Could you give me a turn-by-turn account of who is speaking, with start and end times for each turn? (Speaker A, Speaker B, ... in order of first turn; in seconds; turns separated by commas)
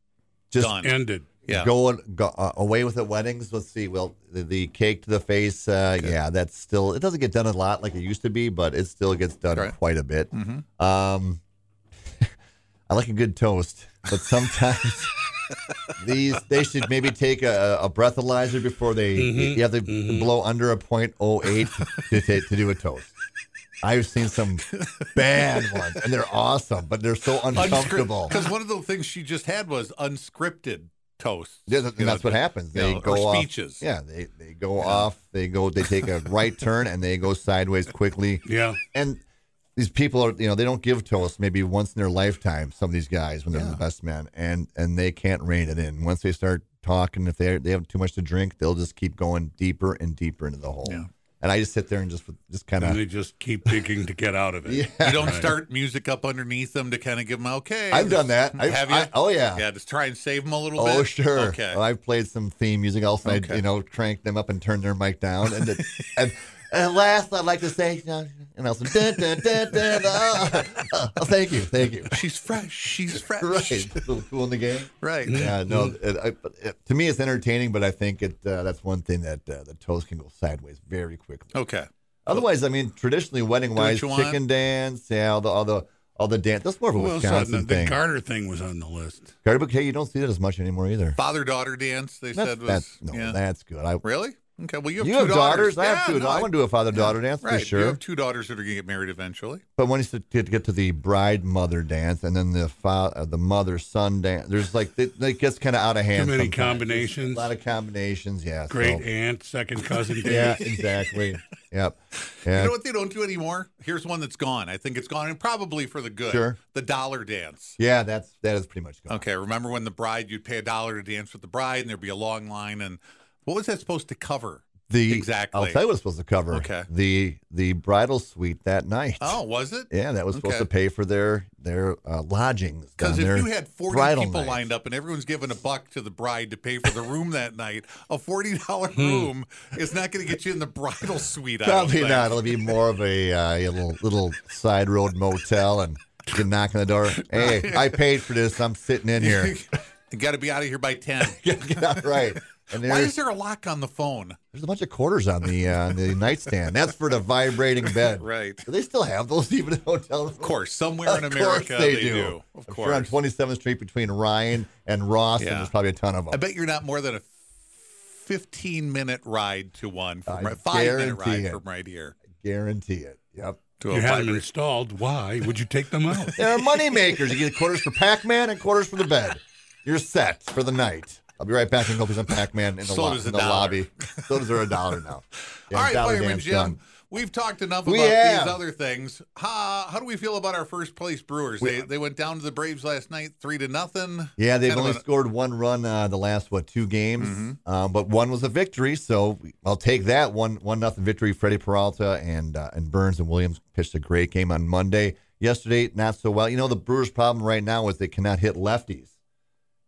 Speaker A: 0.5-0.8, Speaker B: 0.6-1.7, Speaker C: 0.8-1.4, Speaker A: 1.5-11.4, Speaker B: 10.3-10.6, Speaker A: 12.9-15.1, Speaker A: 16.0-23.1, Speaker C: 19.1-20.3, Speaker B: 21.6-22.1, Speaker A: 23.8-28.4, Speaker B: 24.7-25.8, Speaker B: 27.5-33.8, Speaker A: 31.7-39.2, Speaker B: 34.8-35.1, Speaker C: 38.5-38.8, Speaker A: 39.8-53.0, Speaker B: 43.5-43.8, Speaker C: 52.8-55.6, Speaker A: 54.6-55.5, Speaker B: 55.0-61.8, Speaker A: 57.9-59.6, Speaker A: 60.8-72.2, Speaker B: 63.2-63.6, Speaker B: 65.7-66.1, Speaker B: 72.0-74.1, Speaker A: 73.1-81.5, Speaker B: 75.0-75.5, Speaker C: 75.3-75.9, Speaker B: 81.5-82.5, Speaker A: 82.2-88.0, Speaker B: 83.7-84.4, Speaker C: 87.0-89.3, Speaker A: 89.4-91.2, Speaker B: 91.2-93.4, Speaker A: 92.3-94.0, Speaker B: 94.0-99.6, Speaker A: 95.0-98.0, Speaker A: 99.8-109.1, Speaker C: 106.1-107.5, Speaker C: 108.7-110.8, Speaker B: 110.2-110.7, Speaker A: 110.2-112.7, Speaker B: 112.5-117.8, Speaker A: 116.3-116.6, Speaker A: 117.8-119.3, Speaker B: 119.1-125.8, Speaker A: 124.9-134.7, Speaker B: 126.5-126.9, Speaker B: 129.2-130.7, Speaker B: 133.0-142.7, Speaker C: 138.9-139.3, Speaker A: 141.6-149.6, Speaker B: 147.2-148.0, Speaker B: 149.1-154.4, Speaker A: 151.2-153.1, Speaker A: 154.5-166.4, Speaker B: 157.8-158.7, Speaker B: 160.4-163.2, Speaker B: 165.4-165.7, Speaker B: 166.3-172.2, Speaker A: 170.3-171.6, Speaker A: 172.3-173.6, Speaker B: 173.8-174.5, Speaker C: 173.9-176.5, Speaker A: 176.3-186.8, Speaker B: 182.8-184.5, Speaker B: 185.7-195.0, Speaker A: 187.8-188.6, Speaker A: 191.6-191.9, Speaker A: 194.4-209.1, Speaker B: 197.2-197.6